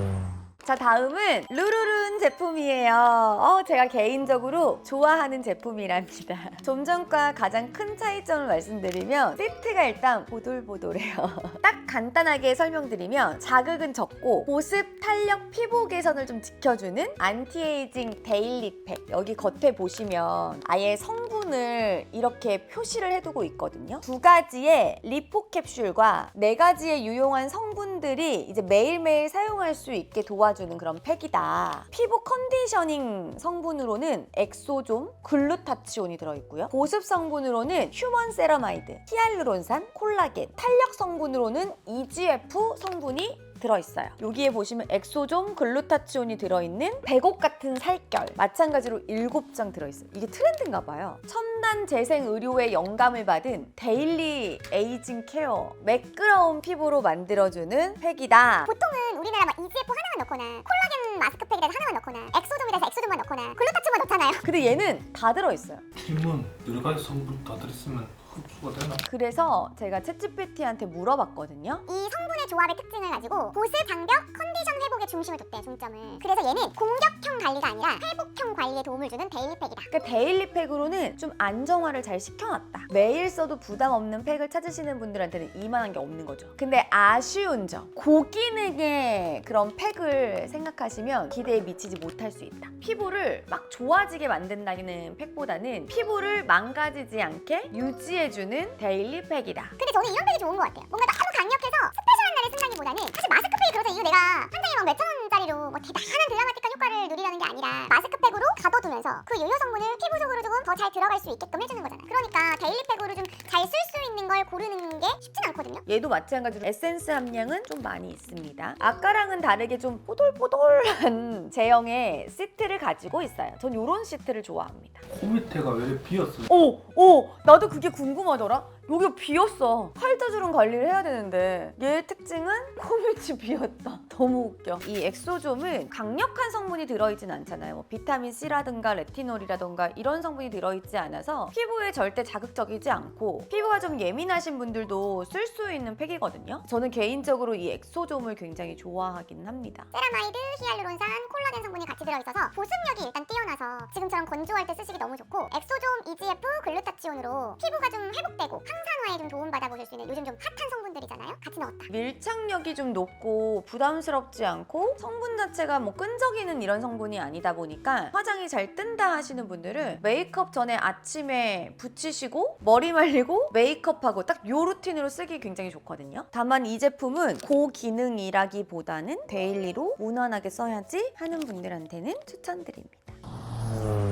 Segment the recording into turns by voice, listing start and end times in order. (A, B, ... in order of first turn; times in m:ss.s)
0:00.6-0:58.7 A
0:58.6-1:04.4 B
1:04.4-1:05.8 A
1:06.0-1:09.0 C
1:09.0-1:11.8 A
1:11.9-1:19.9 B
1:19.9-1:39.8 A
1:39.8-1:55.8 B
1:55.9-2:05.1 A
2:05.1-2:06.5 C
2:06.4-2:29.9 A
2:29.9-2:41.9 B
2:41.9-3:03.2 A